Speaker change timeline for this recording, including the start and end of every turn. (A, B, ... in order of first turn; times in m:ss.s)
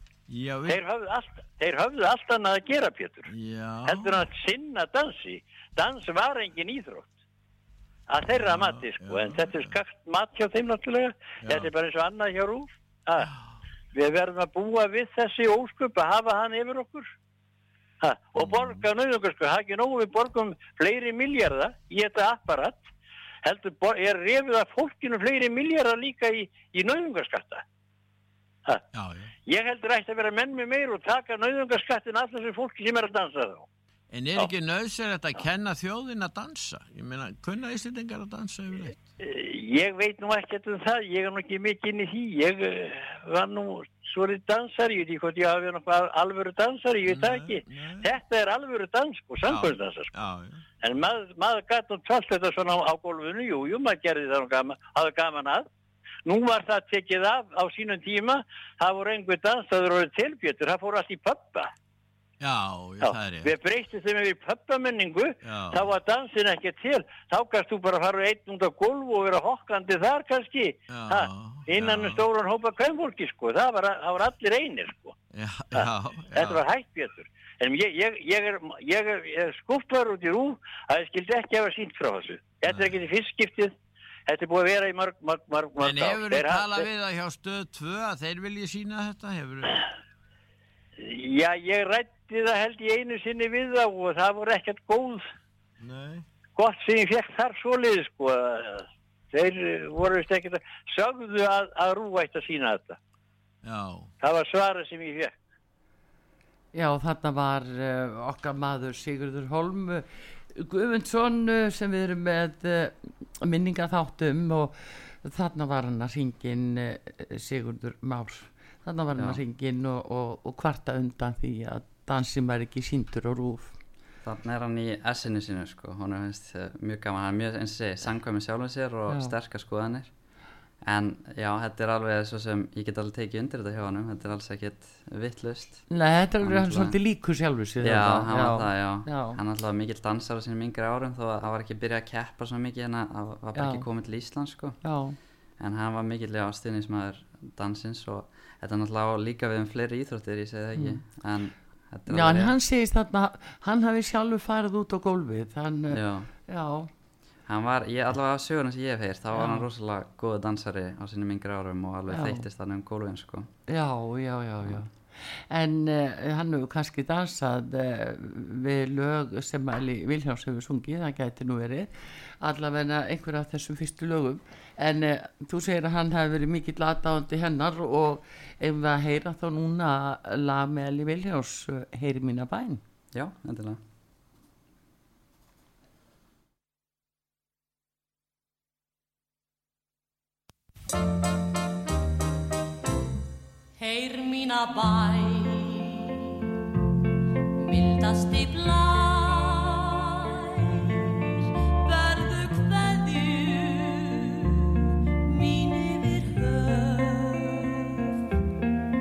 0:00.3-0:00.8 A
0:00.6-0:03.3 B
0:03.3-0:04.2 A
0:03.8-0:07.1 B
0:08.1-0:13.3 B
0:08.4-0:09.7 A
0:13.9-0:17.1 B
0:18.0-0:22.9 B
0:18.4-0:18.8 A
0:23.4-0:27.6 B
0:28.9-0:29.3 A
0:29.5-0:33.7 B
0:34.1-0:39.0 A
0:39.2-0:50.1 B
0:47.1-0:48.0 A
0:49.5-0:50.5 A
0:50.8-0:55.6 B
0:56.2-1:01.7 B
1:02.4-1:03.5 A
1:03.0-1:15.1 B
1:05.4-1:05.8 A
1:10.9-1:12.2 A
1:15.3-1:16.6 A
1:15.7-1:23.7 B
1:24.3-1:26.9 B
1:25.8-1:29.8 A
1:31.0-1:35.3 B
1:35.8-1:36.2 A
1:36.6-1:43.0 B
1:43.6-1:44.1 A
1:44.2-1:45.4 B
1:46.7-2:03.8 C
2:04.2-2:10.1 D
2:09.1-2:09.3 C
2:10.8-2:15.9 D
2:15.9-2:19.4 C
2:16.4-2:17.0 D
2:17.8-2:24.8 D
2:23.5-2:23.8 C
2:24.8-2:25.2 C
2:25.6-2:32.5 D
2:32.1-2:36.9 C
2:35.9-2:36.3 D
2:37.5-2:43.5 D
2:39.3-2:39.6 C
2:42.1-2:42.4 C
2:43.7-3:02.8 C
3:03.1-3:03.8 D
3:13.8-3:16.2 E
3:17.6-3:28.0 E